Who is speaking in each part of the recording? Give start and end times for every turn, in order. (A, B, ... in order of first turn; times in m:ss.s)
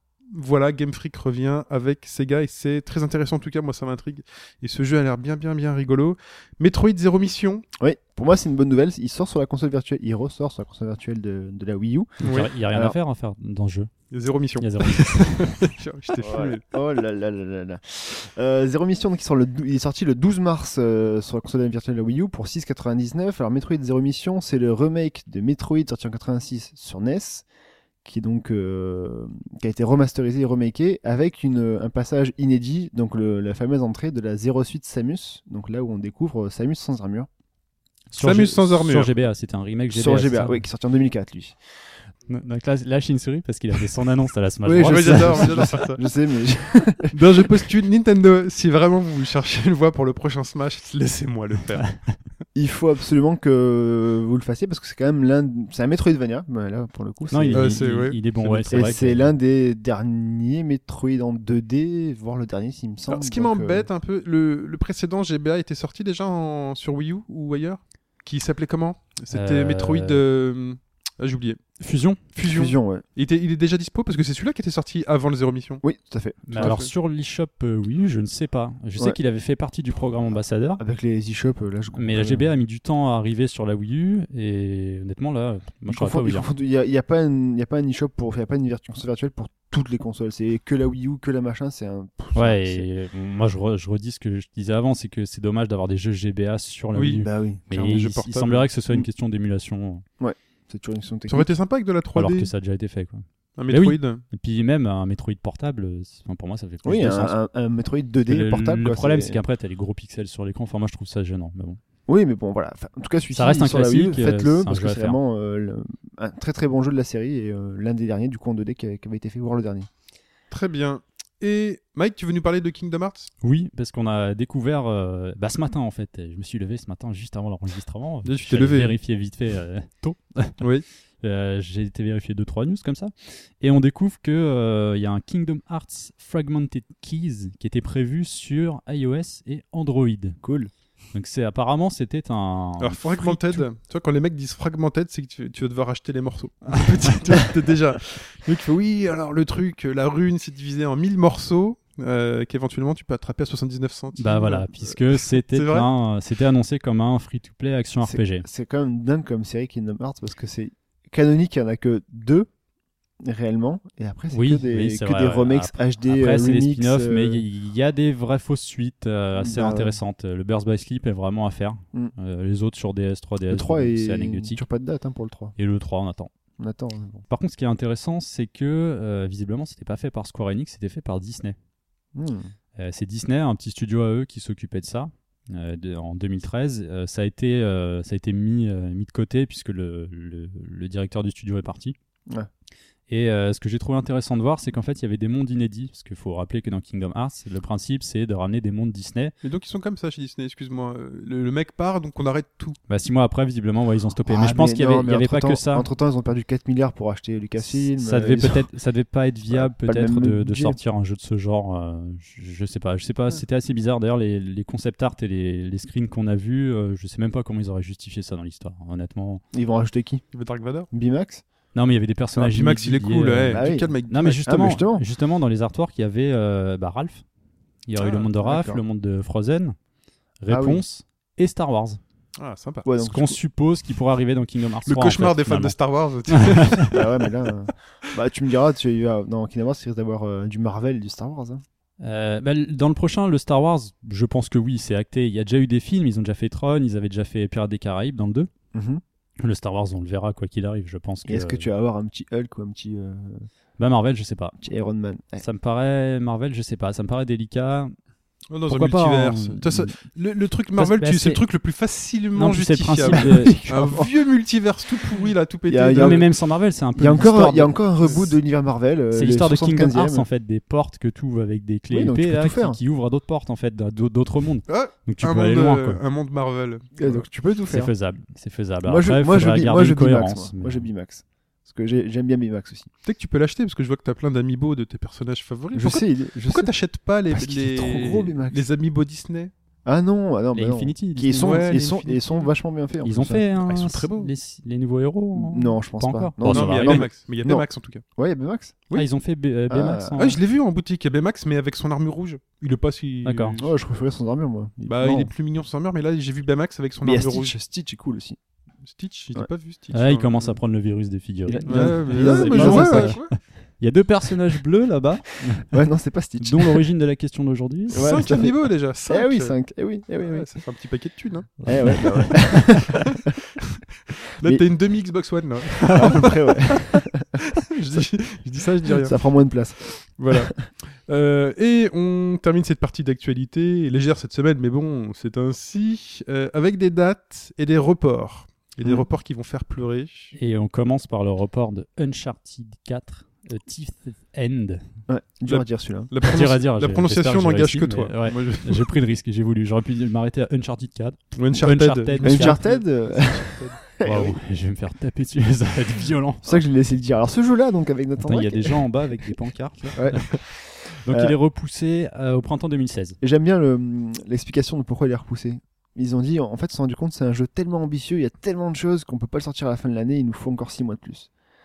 0:00.3-0:07.6 A
0:07.8-0:13.0 B
0:12.2-0:12.5 A
0:12.2-0:13.9 C
0:14.1-0:16.6 A
0:14.6-0:15.6 C
0:16.2-0:27.4 B
0:28.0-0:37.3 B
0:38.1-0:40.6 C
0:38.2-0:39.1 A
0:39.9-0:41.6 B
0:42.3-0:45.8 C
0:44.6-0:46.0 A
0:44.9-0:47.6 B
0:47.1-0:52.0 A
0:52.6-0:57.9 B
0:57.3-0:59.3 C
0:57.5-0:59.0 A
0:58.7-1:03.9 B
1:03.1-1:11.6 A
1:09.3-1:10.2 C
1:11.8-1:12.2 C
1:12.3-1:15.8 A
1:12.4-1:13.0 B
1:15.8-1:16.8 B
1:16.5-1:20.8 C
1:16.5-1:16.9 A
1:20.8-1:22.5 B
1:21.9-1:26.5 C
1:25.9-1:32.8 B
1:32.3-1:40.0 C
1:37.0-1:38.7 A
1:37.2-1:37.9 B
1:40.2-1:41.5 B
1:41.3-1:42.5 A
1:42.1-1:47.4 C
1:43.6-1:44.2 A
1:46.8-1:49.4 B
1:48.3-1:51.8 C
1:52.1-1:59.9 B
1:53.3-1:55.2 C
2:00.5-2:03.3 A
2:03.4-2:10.6 C
2:08.2-2:09.0 A
2:11.2-2:20.4 C
2:20.4-2:20.7 B
2:21.1-2:23.6 C
2:22.8-2:35.9 A
2:34.2-2:38.4 C
2:38.0-2:42.5 B
2:43.2-2:47.4 B
2:44.3-2:54.6 C
2:49.4-2:50.0 B
2:53.5-2:55.6 B
2:55.6-2:56.3 C
2:56.6-2:57.2 B
2:57.3-3:01.6 C
3:02.1-3:02.5 B
3:02.8-3:12.0 C
3:13.1-3:19.4 C
3:19.4-3:22.8 A
3:22.9-3:25.9 C
3:24.3-3:28.6 B
3:27.6-3:39.4 C
3:29.5-3:30.8 B
3:39.5-3:40.2 B
3:40.3-3:40.9 A
3:40.9-3:41.4 B
3:41.7-3:47.2 C
3:42.4-3:44.7 A
3:43.5-3:45.0 B
3:47.9-3:49.8 C
3:48.0-3:48.3 A
3:48.4-3:48.8 B
3:50.4-3:52.0 C
3:50.5-3:50.8 B
3:52.4-3:52.9 A
3:52.8-3:53.4 B
3:53.0-3:55.7 C
3:54.9-3:57.1 A
3:56.3-3:56.9 C
3:56.9-4:01.6 B
4:02.0-4:08.5 C
4:08.7-4:09.0 B
4:09.4-4:11.7 C
4:11.3-4:13.5 B
4:13.8-4:14.6 C
4:14.6-4:15.4 B
4:15.4-4:17.9 C
4:18.5-4:26.3 A
4:18.7-4:19.9 C
4:20.8-4:21.4 C
4:22.4-4:23.6 C
4:23.1-4:24.1 B
4:25.7-4:26.3 B
4:25.9-4:27.8 C
4:27.0-4:30.3 B
4:28.0-4:28.3 A
4:29.1-4:36.0 C
4:31.9-4:32.8 B
4:34.7-4:37.2 A
4:37.0-4:37.9 B
4:37.7-4:40.9 C
4:38.8-4:42.9 B
4:43.0-4:49.5 A
4:45.7-4:46.7 B
4:47.3-4:48.6 B
4:49.9-4:53.4 B
4:50.5-4:51.6 C
4:51.4-4:52.5 A
4:53.0-4:57.1 C
4:53.6-4:54.3 A
4:55.4-4:57.7 B
4:56.4-4:58.0 A
4:58.2-4:58.8 B
4:58.9-5:00.4 C
4:59.7-5:00.2 B
5:00.2-5:03.8 A
5:03.2-5:03.6 C
5:03.6-5:05.3 B
5:04.9-5:07.6 A
5:07.0-5:08.4 B
5:08.8-5:10.6 A
5:09.9-5:15.7 C
5:11.5-5:13.2 B
5:11.7-5:13.4 A
5:15.6-5:16.8 B
5:16.4-5:18.4 C
5:17.9-5:18.6 B
5:17.9-5:19.6 A
5:19.1-5:20.5 B
5:20.2-5:22.0 A
5:21.6-5:22.6 C
5:21.7-5:23.2 B
5:24.2-5:26.8 A
5:25.9-5:27.4 B
5:27.6-5:29.2 A
5:28.8-5:30.4 B
5:29.9-5:40.4 A
5:40.4-5:44.9 C
5:45.1-5:46.1 B
5:45.5-5:49.0 A
5:46.2-5:52.6 C
5:51.4-5:53.8 A
5:52.2-5:54.4 B
5:54.0-5:56.6 C
5:56.4-5:58.8 B
5:58.2-6:00.4 C
6:00.0-6:01.4 B
6:01.0-6:03.2 C
6:03.2-6:11.3 B